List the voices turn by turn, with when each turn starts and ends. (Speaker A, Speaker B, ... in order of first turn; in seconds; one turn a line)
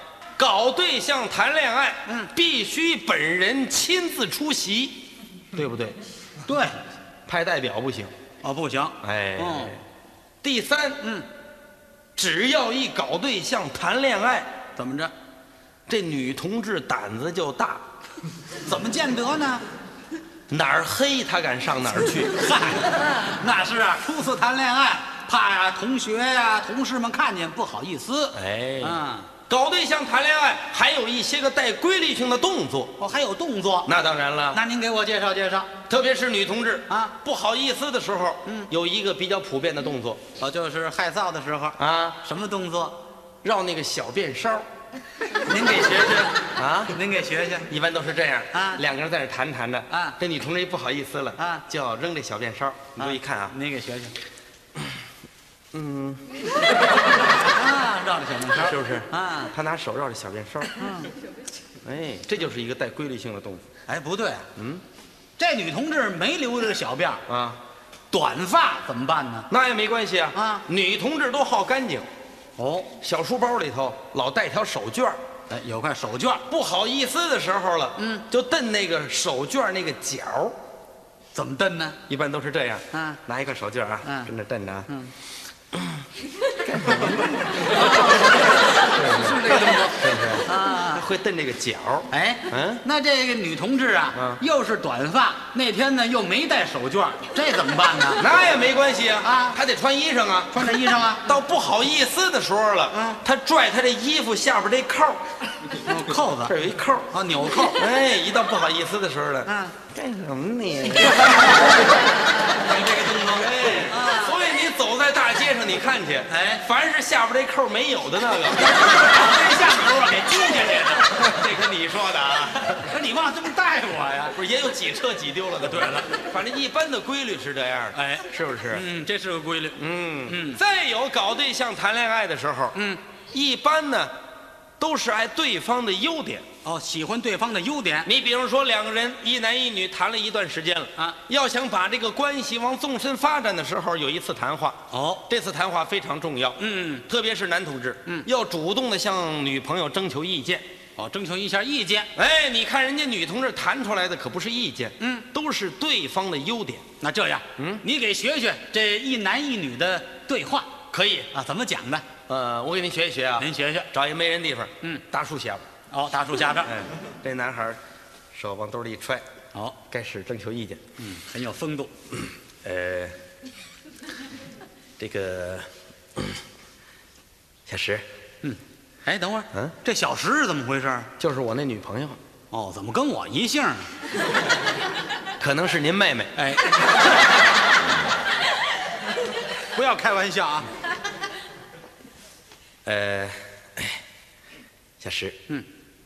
Speaker A: 0.4-5.0
Speaker A: 5.5-6.0
Speaker B: 6.4-6.8
Speaker A: 7.3-8.1
Speaker B: 8.4-9.8
Speaker A: 9.0-9.8
Speaker A: 10.4-11.0
Speaker A: 12.2-14.5
Speaker B: 14.8-15.1
Speaker A: 15.9-17.8
Speaker B: 18.6-19.6
Speaker A: 20.5-22.3
Speaker B: 22.3-29.3
Speaker A: 28.3-32.9
Speaker B: 33.0-33.9
Speaker A: 33.9-34.6
Speaker B: 34.5-35.7
Speaker A: 35.9-40.2
Speaker B: 36.9-37.1
Speaker B: 40.4-43.0
Speaker A: 41.8-42.2
Speaker A: 43.4-44.6
Speaker B: 45.4-47.7
Speaker A: 46.5-47.0
Speaker A: 47.7-53.5
Speaker B: 48.5-48.8
Speaker B: 49.9-50.2
Speaker B: 51.4-51.6
Speaker B: 53.0-54.1
Speaker A: 55.7-56.3
Speaker B: 57.1-59.5
Speaker A: 58.5-60.8
Speaker B: 60.7-61.1
Speaker A: 61.8-63.6
Speaker B: 63.9-64.5
Speaker A: 64.5-64.8
Speaker B: 65.4-67.2
Speaker A: 67.3-67.6
Speaker B: 68.1-69.5
Speaker A: 69.5-72.0
Speaker B: 70.3-70.6
Speaker B: 72.6-73.0
Speaker A: 73.0-75.2
Speaker B: 75.5-76.4
Speaker A: 76.5-80.6
Speaker B: 78.0-78.2
Speaker B: 81.3-82.0
Speaker A: 82.1-84.9
Speaker B: 82.9-83.2
Speaker B: 84.0-84.3
Speaker A: 86.6-88.0
Speaker B: 87.5-91.0
Speaker A: 88.8-92.8
Speaker B: 92.1-98.2
Speaker A: 94.1-94.4
Speaker A: 98.2-105.2
Speaker B: 99.2-99.6
Speaker B: 100.5-101.2
Speaker B: 102.9-103.2
Speaker B: 105.8-107.9
Speaker A: 106.4-107.1
Speaker A: 107.7-111.6
Speaker B: 109.5-109.8
Speaker B: 111.0-114.4
Speaker A: 113.3-119.0
Speaker B: 116.3-116.6
Speaker B: 118.6-121.3
Speaker A: 121.1-122.9
Speaker B: 122.8-124.4
Speaker A: 124.3-128.8
Speaker B: 125.6-126.2
Speaker B: 127.9-130.6
Speaker A: 129.8-132.8
Speaker B: 132.7-133.0
Speaker A: 133.3-134.1
Speaker A: 134.8-136.4
Speaker B: 136.6-138.1
Speaker A: 138.0-150.6
Speaker B: 144.9-145.2
Speaker B: 146.6-147.0
Speaker B: 151.0-152.1
Speaker A: 152.2-156.8
Speaker B: 155.0-155.2
Speaker B: 157.0-160.7
Speaker A: 157.6-157.8
Speaker A: 160.9-161.3
Speaker B: 161.3-162.1
Speaker A: 162.3-165.6
Speaker B: 163.4-163.9
Speaker B: 165.9-166.8
Speaker A: 166.7-167.8
Speaker A: 168.3-169.2
Speaker A: 169.9-170.8
Speaker B: 171.0-171.9
Speaker A: 172.6-173.2
Speaker A: 175.0-175.7
Speaker A: 177.7-178.1
Speaker B: 178.4-181.1
Speaker A: 181.2-182.2
Speaker B: 182.5-183.9
Speaker A: 185.4-186.3
Speaker B: 186.3-187.2
Speaker B: 189.7-190.7
Speaker A: 192.8-194.0
Speaker A: 195.0-195.4